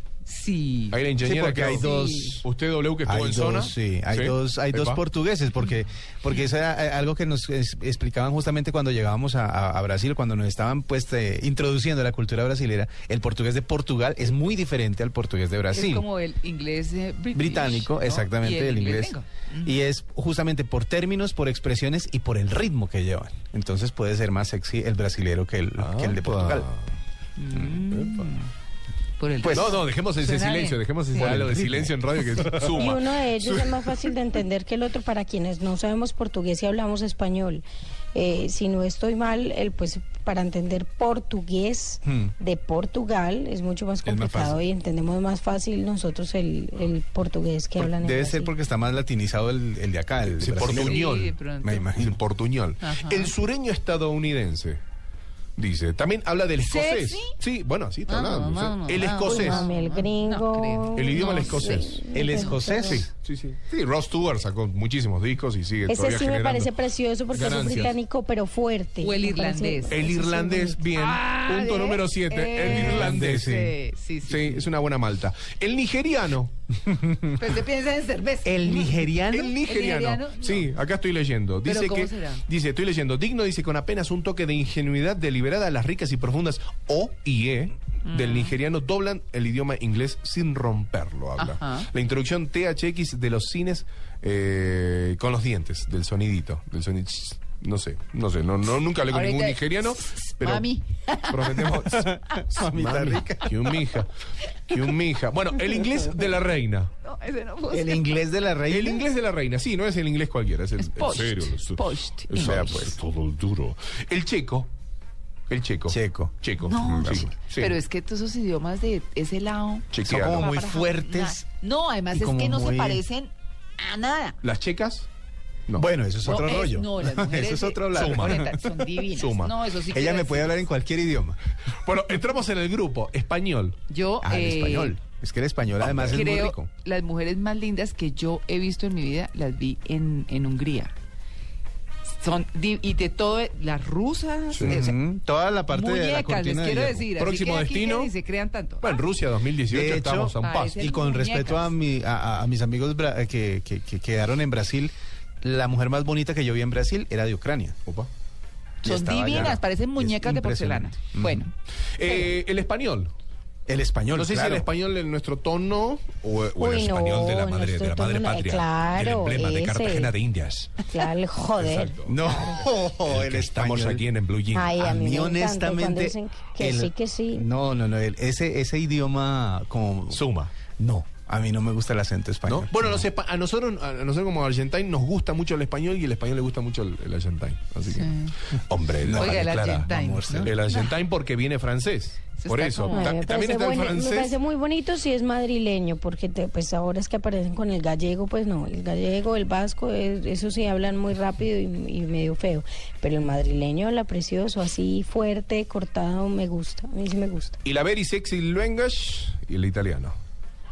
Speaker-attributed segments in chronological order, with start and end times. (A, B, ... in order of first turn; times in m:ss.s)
0:00.2-0:01.0 A
0:00.9-0:01.9 B
0:01.2-0:02.4 C
0:01.6-0:02.4 A
0:02.4-0:05.0 B
0:03.1-0:16.1 C
0:15.7-0:19.7 A
0:17.3-0:26.7 C
0:25.8-0:26.9 B
0:27.4-0:28.5 A
0:29.2-0:31.4 A
0:29.4-0:29.8 C
0:29.5-0:33.7 B
0:31.2-0:32.0 C
0:32.7-0:48.5 D
0:42.1-0:42.3 C
0:44.0-0:44.6 C
0:47.8-0:51.1 C
0:50.2-0:51.4 B
0:50.6-0:52.0 A
0:51.6-0:52.2 C
0:52.0-0:54.8 B
0:52.8-0:53.3 A
0:55.6-0:59.7 B
0:56.6-0:57.4 A
0:58.1-1:01.7 A
0:59.0-1:03.1 D
1:01.0-1:02.1 B
1:02.1-1:03.1 C
1:02.9-1:06.7 B
1:05.9-1:10.8 D
1:07.3-1:07.9 C
1:07.3-1:08.0 B
1:09.0-1:10.1 A
1:09.9-1:13.5 B
1:10.9-1:14.7 A
1:12.6-1:13.8 C
1:14.2-1:16.5 B
1:16.9-1:17.3 C
1:17.4-1:20.7 A
1:18.4-1:19.5 C
1:19.3-1:40.7 B
1:21.6-1:22.4 A
1:28.0-1:28.6 A
1:31.4-1:31.9 A
1:39.1-1:41.8 A
1:41.3-1:44.1 B
1:41.7-1:43.8 C
1:44.7-1:46.9 B
1:47.0-1:48.1 A
1:47.7-1:49.1 C
1:48.7-1:54.7 B
1:50.8-1:52.9 A
1:52.3-1:53.0 C
1:55.5-1:57.8 B
1:55.9-1:57.3 C
1:56.6-2:04.4 A
1:59.9-2:00.5 B
2:00.0-2:01.5 C
2:02.1-2:03.0 C
2:04.4-2:05.1 B
2:05.8-2:08.9 C
2:06.2-2:10.7 A
2:07.9-2:08.4 B
2:09.2-2:09.6 B
2:09.9-2:11.4 C
2:11.8-2:13.8 B
2:13.9-2:15.0 A
2:14.2-2:16.7 C
2:15.8-2:20.9 A
2:15.9-2:16.6 B
2:22.2-2:25.0 A
2:24.5-2:24.8 B
2:24.6-2:27.1 C
2:25.7-2:29.0 A
2:27.2-2:28.1 B
2:28.8-2:30.7 B
2:29.7-2:37.8 C
2:30.4-2:31.7 A
2:38.8-2:41.4 C
2:38.8-2:41.5 A
2:42.0-2:43.1 B
2:43.7-2:44.7 C
2:44.1-2:50.9 B
2:46.6-2:50.1 D
2:50.8-2:52.7 D
2:51.6-2:52.2 B
2:52.1-2:54.0 C
2:53.0-2:54.7 B
2:54.5-2:57.4 D
2:54.6-3:03.1 C
3:00.1-3:00.5 B
3:02.5-3:08.1 B
3:07.9-3:08.3 A
3:08.7-3:09.8 B
3:09.0-3:10.6 C
3:09.1-3:11.0 A
3:10.4-3:14.4 B
3:12.4-3:13.2 A
3:12.8-3:27.6 D
3:27.6-3:30.2 B